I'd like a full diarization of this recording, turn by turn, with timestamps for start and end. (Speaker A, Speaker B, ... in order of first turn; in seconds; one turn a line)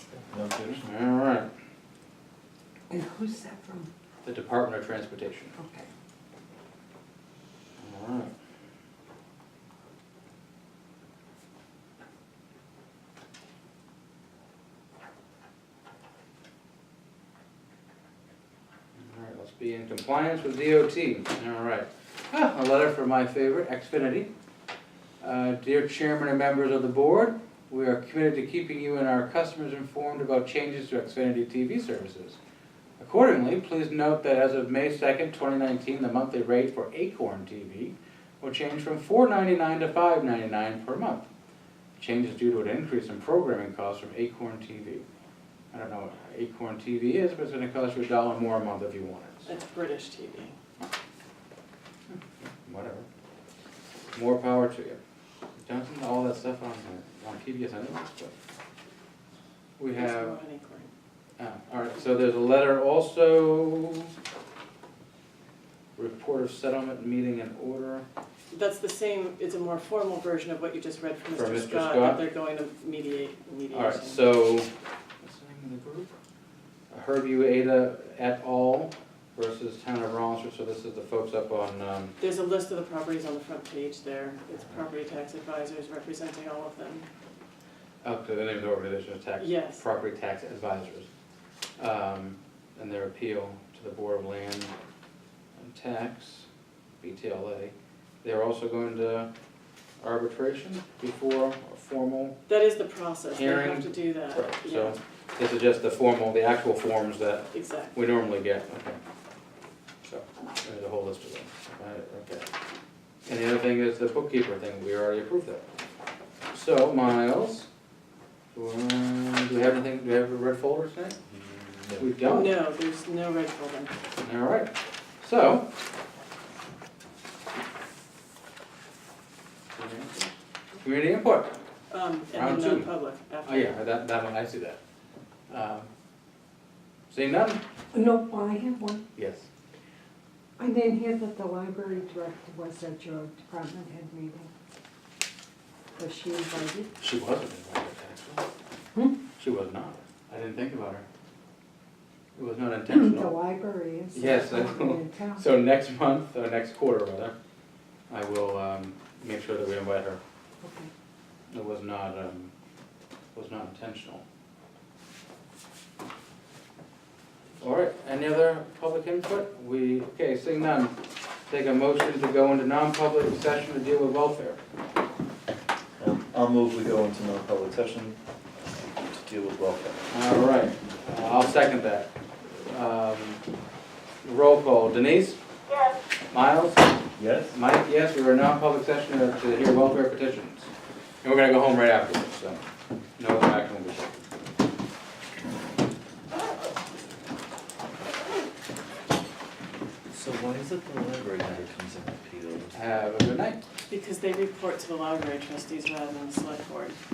Speaker A: 0.1-0.8
Speaker B: 0.8-1.5
Speaker C: 2.9-3.9
Speaker B: 4.2-5.5
Speaker C: 5.6-5.9
Speaker B: 7.8-8.3
Speaker B: 18.9-24.3
Speaker B: 25.2-32.4
Speaker B: 33.0-41.3
Speaker B: 42.0-45.0
Speaker B: 45.7-49.5
Speaker D: 49.5-50.5
Speaker B: 52.1-53.0
Speaker B: 54.1-55.0
Speaker B: 55.6-58.3
Speaker B: 59.8-60.4
Speaker D: 60.0-60.9
Speaker B: 61.4-64.1
Speaker B: 66.0-68.0
Speaker D: 68.5-74.2
Speaker B: 71.3-72.2
Speaker B: 73.7-74.7
Speaker B: 75.2-76.1
Speaker B: 76.9-82.1
Speaker D: 82.2-87.0
Speaker B: 88.0-91.1
Speaker D: 89.4-89.8
Speaker B: 91.8-94.7
Speaker B: 95.6-96.5
Speaker B: 97.0-99.3
Speaker B: 100.0-102.4
Speaker D: 102.5-105.0
Speaker B: 103.3-109.0
Speaker D: 107.5-107.9
Speaker B: 110.0-112.5
Speaker B: 113.2-115.6
Speaker B: 116.5-117.7
Speaker B: 118.5-121.2
Speaker A: 121.3-122.1
Speaker B: 122.0-122.5
Speaker D: 122.2-123.9
Speaker B: 124.2-125.7
Speaker B: 129.7-130.3
Speaker B: 130.8-131.6
Speaker D: 131.9-133.7
Speaker B: 132.3-132.9
Speaker B: 133.4-134.8
Speaker B: 135.5-135.9
Speaker B: 137.1-137.6
Speaker C: 137.9-139.0
Speaker B: 139.1-139.4
Speaker C: 140.6-144.5
Speaker C: 146.0-146.9
Speaker B: 147.0-148.4
Speaker B: 149.4-151.1
Speaker B: 152.3-153.3
Speaker C: 152.9-155.4
Speaker B: 154.1-157.3
Speaker B: 158.1-160.2
Speaker C: 160.6-160.9
Speaker B: 161.5-162.5
Speaker B: 163.3-164.2
Speaker B: 167.6-170.9
Speaker B: 171.5-174.6
Speaker A: 176.0-178.2
Speaker A: 178.9-180.1
Speaker B: 180.1-183.4
Speaker B: 184.2-185.4
Speaker B: 186.3-187.0
Speaker A: 187.2-187.6
Speaker B: 187.5-190.7
Speaker B: 191.2-192.6
Speaker B: 193.2-194.2
Speaker A: 200.1-202.7
Speaker B: 202.7-203.6
Speaker D: 203.9-207.0